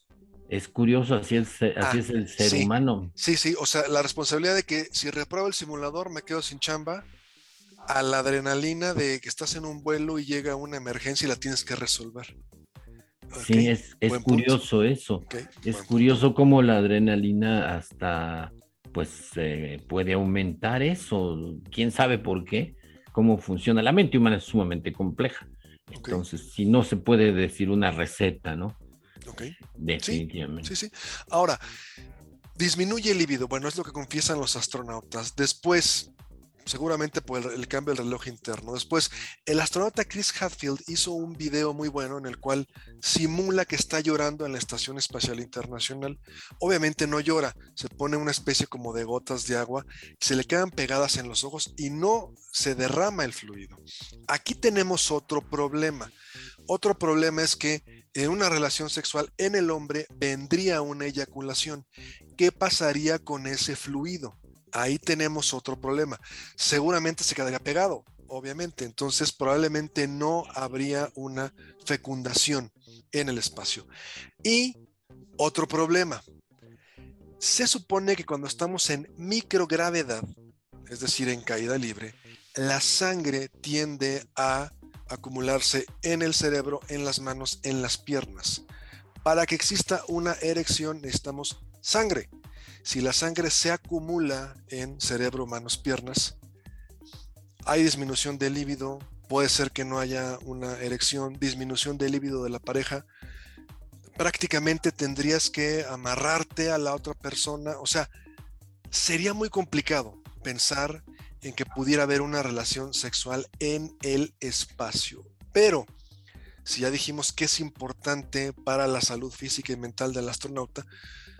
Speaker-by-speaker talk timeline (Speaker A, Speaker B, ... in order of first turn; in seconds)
Speaker A: 0.5-3.1, 13.4-28.8, 29.8-30.7
Speaker B: 1.8-7.1, 7.8-12.3, 13.3-14.6, 15.3-16.0, 25.9-26.2, 29.3-31.6, 32.5-36.1, 36.6-56.1, 56.7-73.9, 74.4-74.8, 75.4-76.2, 77.4-80.2, 80.9-88.6, 89.2-92.3, 92.8-96.4, 97.7-103.0, 104.2-108.1, 108.9-115.9, 116.6-120.8